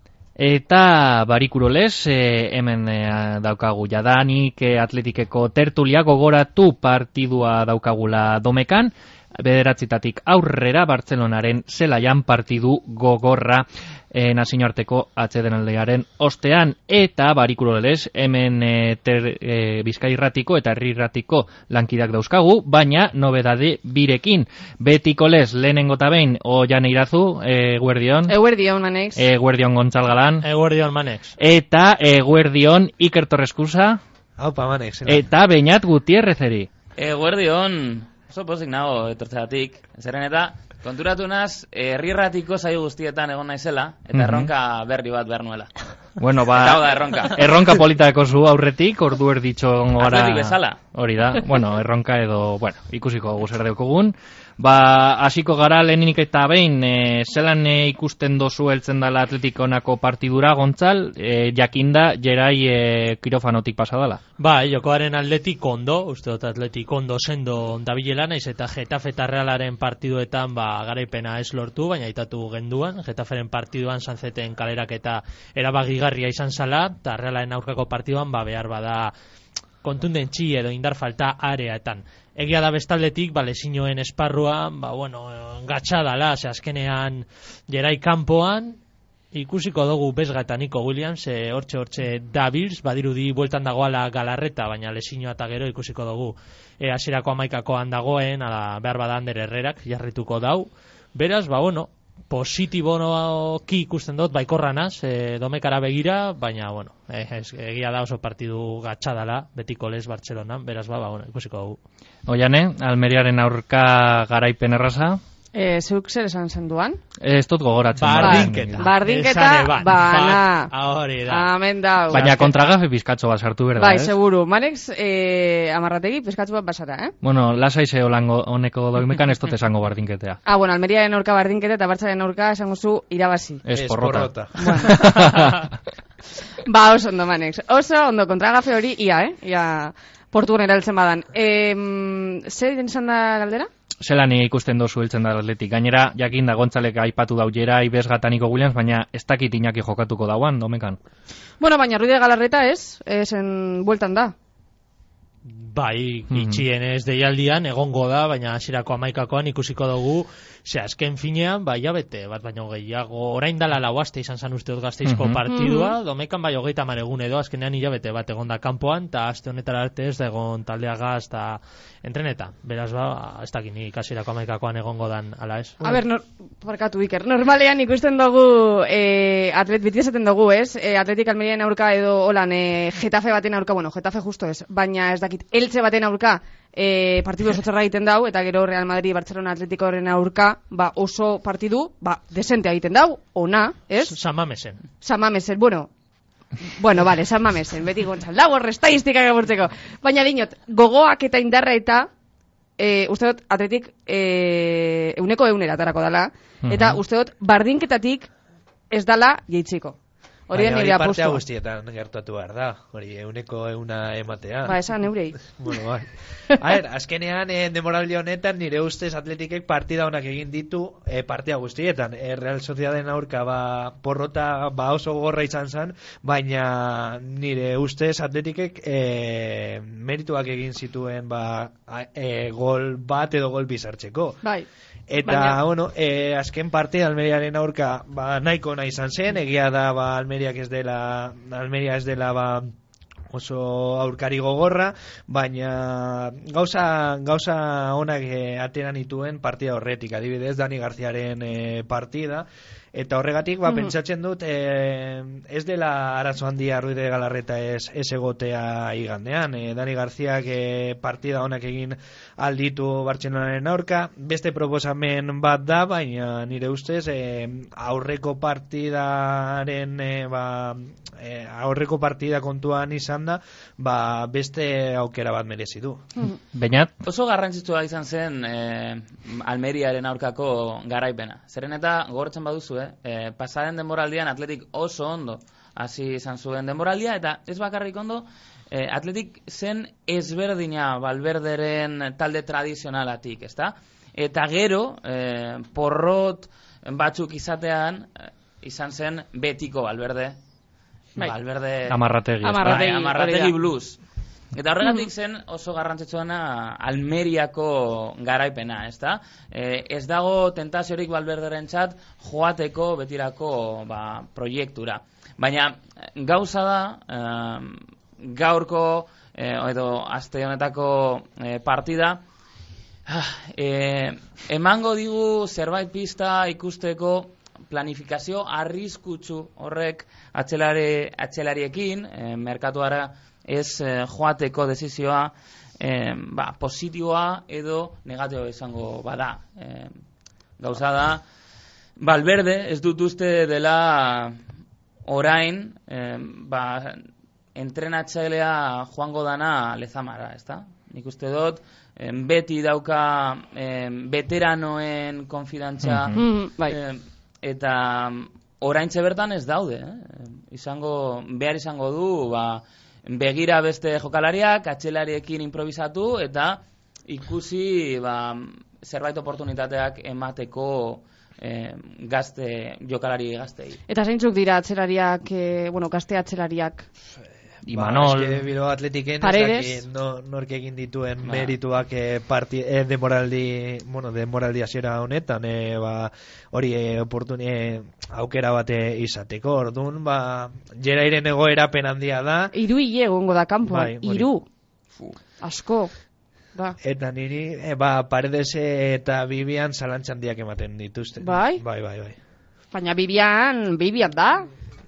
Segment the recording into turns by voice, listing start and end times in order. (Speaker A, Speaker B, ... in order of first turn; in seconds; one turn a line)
Speaker A: 0.4-28.4
Speaker B: 28.3-29.2
Speaker A: 29.2-30.5
Speaker C: 30.4-31.4
Speaker A: 31.4-34.0
Speaker D: 34.4-35.2
Speaker A: 35.1-36.7
Speaker E: 37.0-45.7
Speaker A: 44.1-44.5
Speaker A: 46.2-64.2
Speaker E: 46.5-47.8
Speaker E: 50.0-50.8
Speaker C: 64.4-79.1
Speaker C: 79.8-88.8
Speaker C: 89.3-111.8
Speaker A: 112.3-115.2
Speaker B: 115.5-117.0
Speaker A: 117.2-118.9
Speaker C: 118.0-121.5
Speaker B: 118.2-120.7
Speaker B: 121.3-122.6
Speaker A: 122.1-124.1
Speaker B: 123.8-127.2
Speaker A: 127.2-130.4
Speaker B: 130.4-133.6
Speaker A: 133.6-135.7
Speaker D: 133.8-134.9
Speaker B: 134.6-135.1
Speaker B: 136.6-143.7
Speaker A: 144.0-151.0
Speaker B: 151.6-154.3
Speaker C: 155.5-176.0
Speaker A: 156.3-156.6
Speaker A: 165.1-165.4
Speaker B: 165.5-165.9
Speaker B: 175.8-194.2
Speaker C: 194.0-194.8
Speaker B: 195.0-195.9
Speaker B: 196.7-202.1
Speaker B: 202.8-208.3
Speaker A: 206.6-207.0
Speaker B: 208.9-210.0
Speaker B: 210.5-211.4
Speaker D: 210.5-214.8
Speaker B: 214.7-215.5
Speaker D: 215.4-234.4
Speaker D: 235.1-242.7
Speaker B: 235.2-235.6
Speaker D: 243.3-276.1
Speaker A: 276.5-276.9
Speaker E: 277.0-300.4
Speaker E: 301.2-302.0
Speaker A: 301.9-302.8
Speaker B: 302.4-303.5
Speaker E: 302.6-304.0
Speaker E: 304.5-322.2
Speaker E: 323.1-340.0
Speaker E: 340.6-341.2
Speaker E: 342.0-344.4
Speaker E: 345.1-373.8
Speaker A: 355.8-356.2
Speaker B: 356.2-356.8
Speaker B: 373.9-376.9
Speaker A: 377.6-378.4
Speaker D: 377.7-392.5
Speaker B: 379.2-379.8
Speaker E: 381.2-381.6
Speaker B: 392.5-394.4
Speaker D: 393.6-394.3
Speaker B: 395.4-395.9
Speaker D: 396.8-402.2
Speaker B: 401.2-401.6
Speaker B: 402.7-404.5